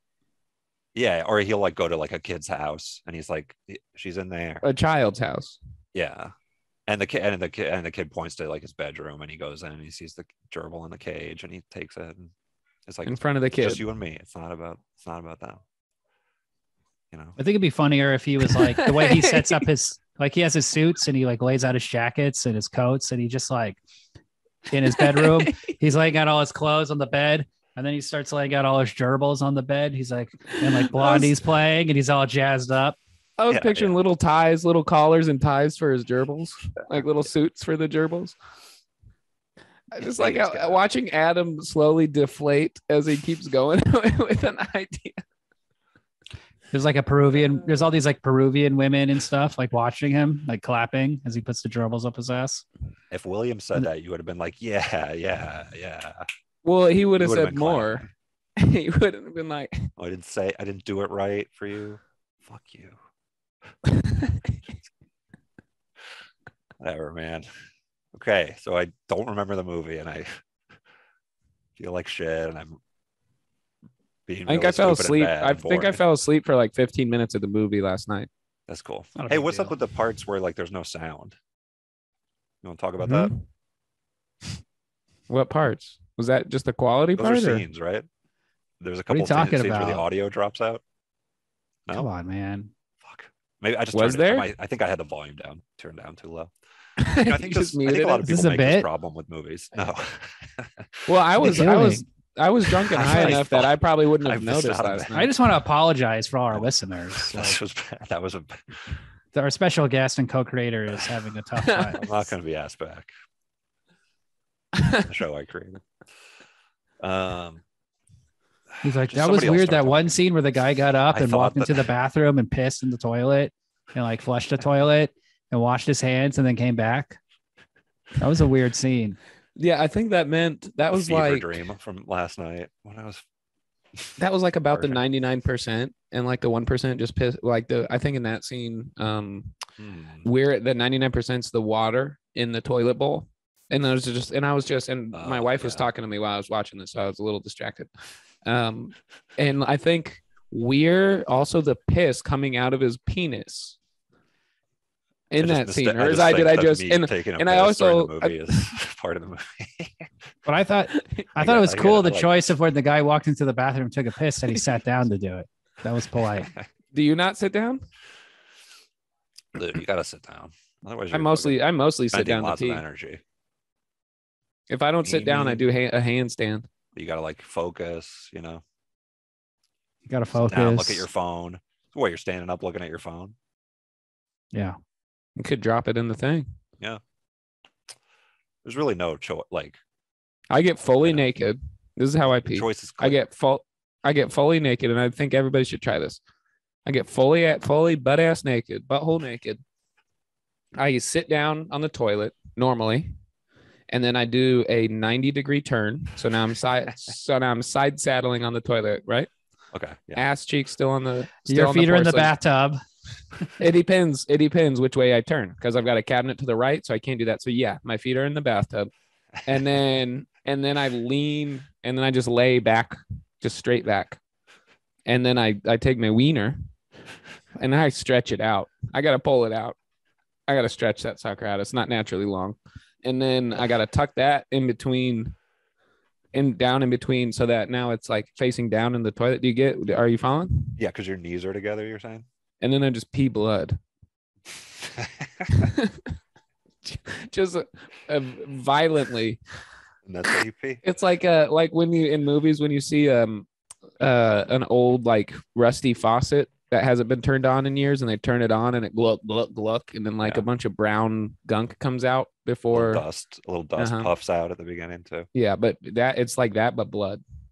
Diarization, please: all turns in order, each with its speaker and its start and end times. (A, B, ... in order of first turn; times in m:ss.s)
0:00.9-0:04.6 A
0:04.6-0:05.6 B
0:05.9-0:06.3 A
0:06.9-0:12.3 A
0:12.9-0:15.6 A
0:13.0-0:13.8 B
0:17.1-0:17.4 A
0:17.4-0:23.8 C
0:18.6-0:19.6 B
0:24.7-0:33.0 C
0:24.9-0:25.7 B
0:30.5-0:31.4 B
0:33.4-0:38.4 B
0:33.5-0:34.0 A
0:39.9-0:45.2 B
0:40.0-0:40.8 A
0:46.7-0:52.6 C
0:53.1-0:56.2 A
0:56.6-0:58.0 B
0:57.2-0:58.1 A
0:58.6-0:59.9 B
1:00.0-1:03.0 A
1:03.9-1:04.6 B
1:06.8-1:07.5 A
1:08.1-1:10.4 A
1:11.8-1:12.8 A
1:14.3-1:16.0 A
1:14.5-1:18.3 B
1:18.7-1:21.4 A
1:19.2-1:19.7 C
1:22.6-1:23.3 A
1:23.0-1:23.4 B
1:25.3-1:27.6 B
1:27.2-1:28.0 A
1:28.8-1:30.8 A
1:29.1-1:30.0 C
1:31.9-1:32.7 C
1:33.0-1:41.1 A
1:33.9-1:34.5 B
1:37.0-1:38.2 B
1:38.2-1:38.9 C
1:41.1-1:45.3 B
1:41.4-1:42.0 C
1:42.8-1:45.2 A
1:45.1-1:47.6 C
1:46.5-1:49.0 A
1:49.3-1:52.1 C
1:51.6-1:52.0 B
1:51.9-1:53.1 A
1:55.0-1:55.8 A
1:57.0-1:57.6 A
1:58.8-2:00.2 A
1:58.8-2:07.2 C
2:01.1-2:01.9 A
2:08.2-2:09.2 C
2:09.6-2:11.6 B
2:10.9-2:13.2 A
2:14.2-2:19.6 B
2:14.7-2:15.0 A
2:19.8-2:20.3 A
2:20.2-2:27.9 B
2:25.1-2:25.9 A
2:28.4-2:33.8 B
2:35.3-2:38.6 B
2:35.4-2:40.1 A
2:40.4-2:46.5 C
2:41.4-2:42.6 A
2:46.9-2:47.8 B
2:49.5-2:51.6 A
2:51.1-2:52.8 B
2:52.1-2:53.2 A
2:54.7-2:56.7 B
2:55.0-2:55.6 A
2:56.9-2:58.6 A
3:00.1-3:01.1 C
3:00.3-3:03.4 A
3:05.4-3:06.5 B
3:08.6-3:09.8 A
3:10.5-3:16.2 B
3:12.4-3:13.2 A
3:16.8-3:19.6 B
3:20.8-3:23.1 B
3:23.9-3:29.3 B
3:29.7-3:30.2 A
3:30.1-3:32.3 B
3:31.5-3:32.8 C
3:33.6-3:38.9 B
3:39.4-3:44.2 B
3:45.0-3:46.6 B
3:47.6-3:49.8 B
3:50.5-3:55.3 B
3:56.3-4:00.8 B
4:00.8-4:02.2 A
4:02.6-4:03.8 B
4:05.0-4:05.5 A
4:05.5-4:06.1 B
4:06.8-4:09.4 B
4:10.0-4:10.8 A
4:10.8-4:13.4 B
4:14.0-4:23.0 B
4:22.7-4:25.3 A
4:23.8-4:24.1 B
4:25.3-4:27.2 B